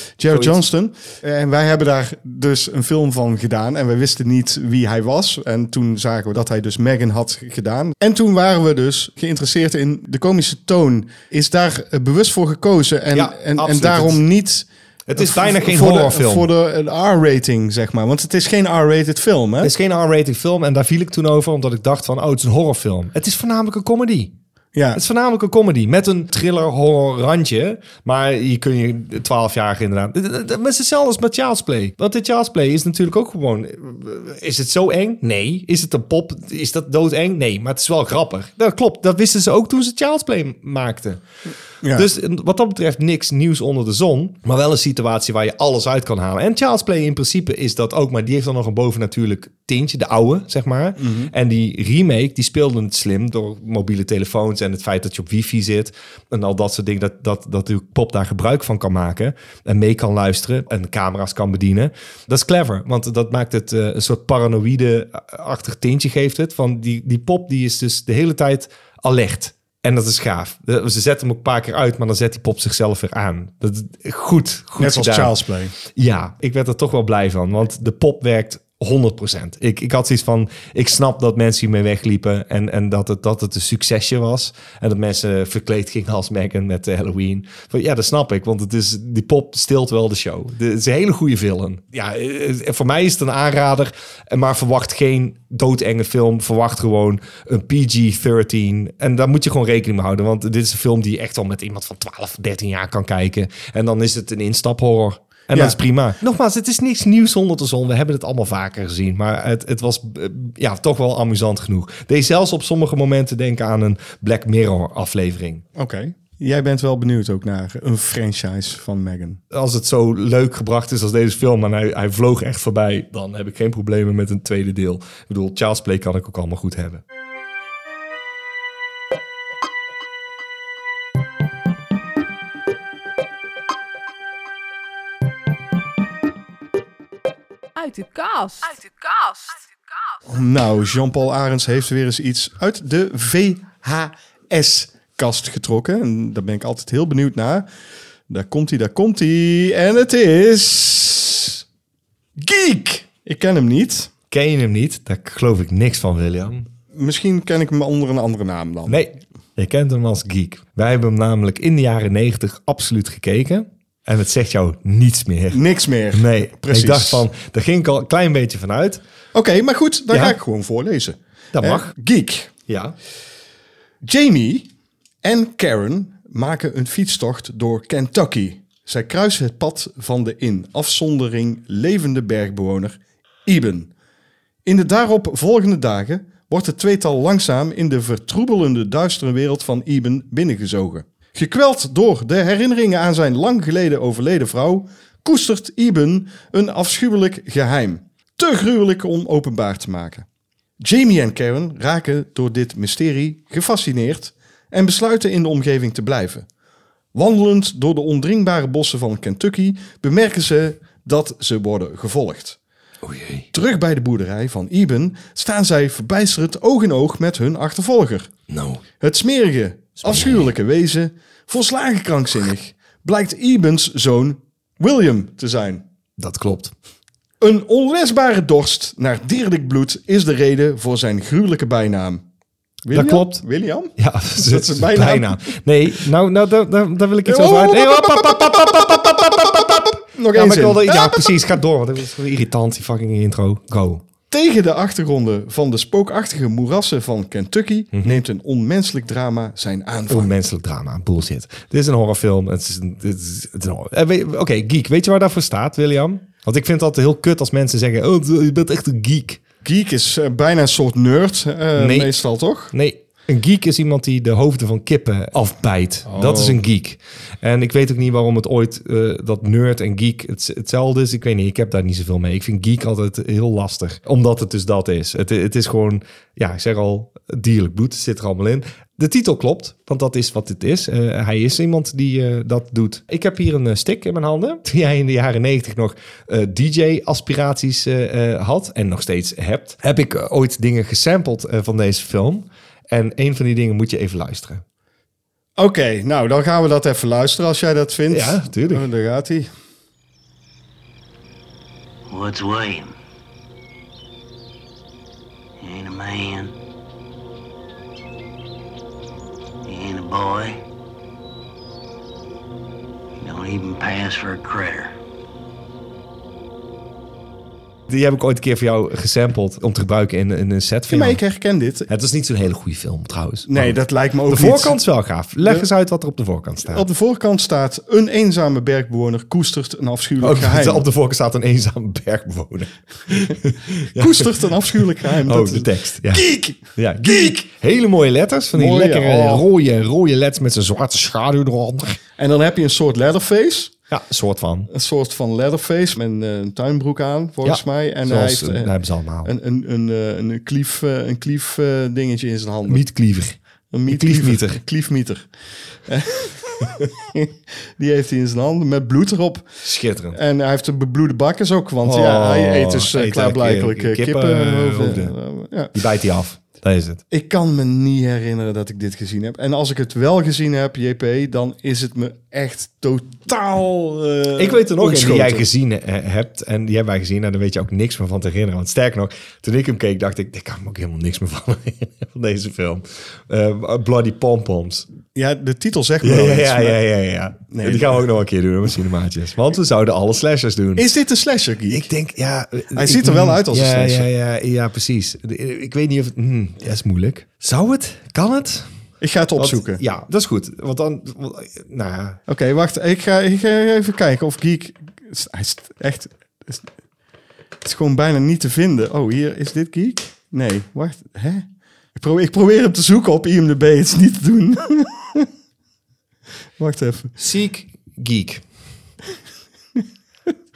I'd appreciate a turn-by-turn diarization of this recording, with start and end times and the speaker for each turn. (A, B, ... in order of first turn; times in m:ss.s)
0:00.2-0:19.7 A
0:00.3-0:00.6 B
0:13.1-0:14.2 B
0:15.1-0:16.5 B
0:19.6-0:24.3 B
0:24.7-0:25.0 A
0:24.9-0:41.2 B
0:41.8-0:42.1 A
0:41.9-1:15.3 B
0:51.0-0:51.3 A
1:14.8-1:15.7 A
1:15.8-1:55.6 B
1:45.5-1:45.8 A
1:55.8-1:59.4 A
1:59.5-2:07.0 B
2:17.8-2:20.2 C
2:20.3-2:27.7 A
2:28.3-2:31.6 A
2:32.4-2:34.1 A
2:34.3-2:36.7 B
2:36.9-2:39.0 A
2:38.9-2:49.0 B
2:45.5-2:47.3 A
2:49.3-2:52.5 A
2:51.5-2:51.9 B
2:52.7-2:53.0 B
2:54.0-2:54.7 A
2:55.2-3:03.9 A
3:04.6-3:20.3 A
3:20.8-3:26.5 A
3:27.1-3:32.6 A
3:33.0-3:33.5 B
3:33.5-3:38.3 A
3:38.5-3:38.8 B
3:39.0-3:45.8 A
3:40.0-3:40.5 B
3:46.2-3:46.7 B
3:47.4-3:52.2 A
3:52.8-3:55.4 A
3:52.9-3:53.4 B
3:54.0-4:04.0 B
3:57.3-4:01.4 A
4:04.3-4:10.3 A
4:07.9-4:08.2 B
4:10.1-4:19.4 B
4:19.6-4:22.7 A
4:21.8-4:22.1 B
4:22.7-4:54.6 B
4:26.1-4:26.6 A
4:55.6-4:59.5 A
4:58.1-4:58.9 B
5:02.1-5:03.0 D
5:05.6-5:06.5 D
5:09.6-5:10.6 D
5:13.2-5:14.9 D
5:17.9-5:21.2 B
5:20.9-5:21.9 A
5:21.9-5:23.8 B
5:23.5-5:24.8 A
5:24.3-5:26.8 B
5:26.7-5:30.8 A
5:30.2-5:34.4 B
5:33.9-5:37.3 A
5:35.2-5:42.0 B
5:38.6-5:39.5 A
5:42.2-5:43.7 A
5:43.9-5:44.7 B
5:44.7-5:48.7 A
5:47.4-5:49.3 B
5:49.2-5:52.8 A
5:52.7-5:53.4 B
5:53.7-5:55.3 A
5:53.9-5:54.6 B
5:55.8-5:59.5 A
5:59.6-6:00.2 B
6:00.1-6:05.8 A
6:01.8-6:05.2 B
6:05.7-6:07.0 B
6:07.1-6:15.5 A
6:14.4-6:24.9 B
6:25.2-6:26.8 A
6:26.0-6:30.8 B
6:27.5-6:27.9 A
6:30.8-6:31.9 A
6:31.7-6:38.7 B
6:32.7-6:34.1 A
6:39.0-6:39.8 A
6:39.4-6:42.2 B
6:42.3-6:46.7 A
6:47.6-6:55.3 A
6:56.6-6:57.2 A
6:57.2-6:58.4 B